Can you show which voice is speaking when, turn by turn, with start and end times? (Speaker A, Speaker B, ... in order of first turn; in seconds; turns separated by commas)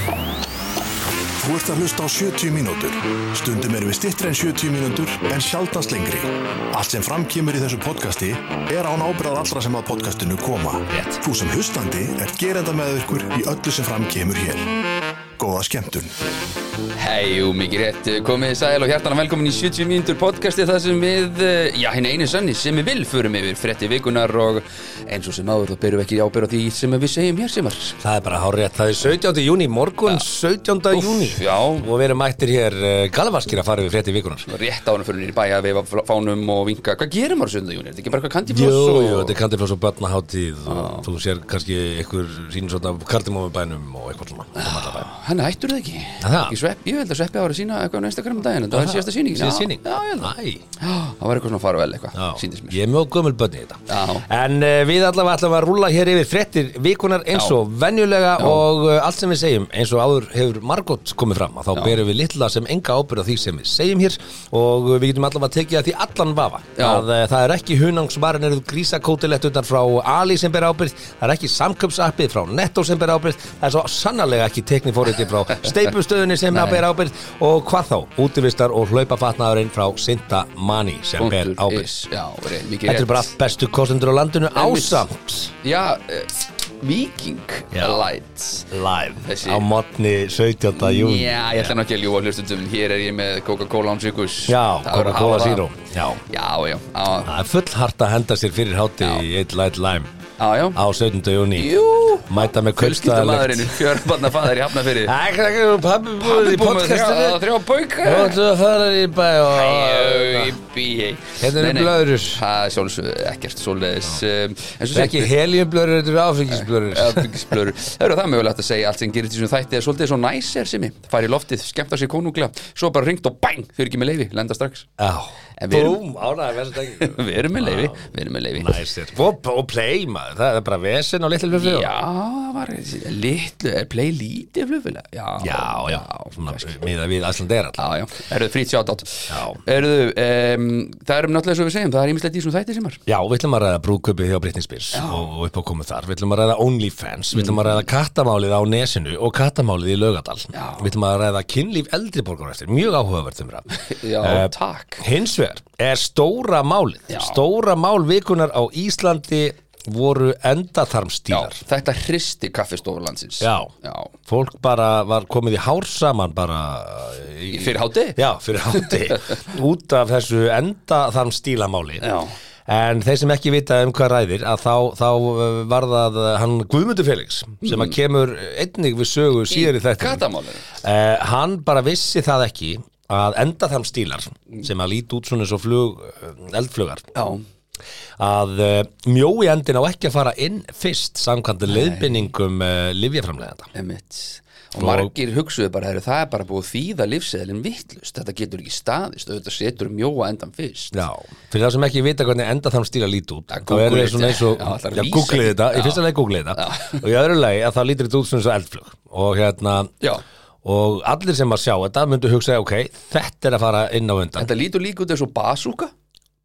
Speaker A: 1.4-14.7, Speaker B: 10.9-11.2, Speaker A: 15.4-16.2, Speaker C: 16.9-28.0, Speaker B: 28.0-34.5, Speaker C: 30.9-31.9, Speaker C: 34.5-39.4, Speaker B: 38.5-45.1, Speaker C: 40.7-41.1, Speaker C: 44.5-52.8, Speaker B: 46.2-46.6, Speaker B: 48.7-50.6, Speaker B: 52.1-81.9, Speaker C: 53.9-54.2, Speaker C: 58.4-58.6, Speaker C: 61.7-62.0, Speaker C: 66.8-67.0, Speaker C: 76.5-76.8, Speaker C: 81.2-83.3, Speaker B: 82.8-85.5, Speaker C: 84.5-85.1, Speaker C: 85.6-88.7, Speaker B: 87.7-88.1, Speaker B: 88.7-91.8, Speaker C: 89.2-89.7, Speaker C: 90.8-95.7, Speaker B: 94.5-96.2, Speaker C: 96.2-97.3, Speaker B: 97.2-100.1, Speaker C: 99.0-99.2, Speaker C: 100.4-100.8, Speaker B: 100.7-104.2, Speaker C: 101.5-105.1, Speaker B: 104.9-107.4, Speaker C: 106.2-108.4, Speaker B: 108.0-110.5, Speaker C: 109.5-115.3, Speaker B: 111.4-112.4, Speaker B: 114.9-117.6, Speaker C: 116.5-124.9, Speaker B: 125.0-128.0, Speaker C: 125.6-126.0, Speaker C: 126.9-128.8, Speaker B: 128.6-132.0, Speaker C: 131.5-136.8, Speaker B: 135.4-137.8, Speaker C: 137.8-143.0, Speaker B: 139.3-139.6, Speaker B: 143.1-161.6, Speaker C: 144.9-145.3, Speaker C: 147.3-147.8, Speaker C: 150.5-150.9, Speaker C: 153.7-155.0, Speaker C: 157.1-157.4, Speaker C: 161.3-164.1, Speaker B: 163.4-163.7, Speaker B: 164.2-172.0, Speaker C: 167.5-169.4, Speaker C: 172.0-172.3, Speaker B: 172.7-180.2, Speaker C: 177.6-177.9, Speaker C: 179.5-180.7, Speaker B: 180.8-187.0, Speaker C: 187.1-187.4, Speaker B: 188.2-193.7, Speaker C: 191.7-192.3, Speaker C: 193.7-201.0, Speaker B: 194.8-195.1, Speaker B: 200.9-209.9, Speaker C: 203.5-207.0, Speaker B: 210.6-214.5, Speaker C: 214.3-215.9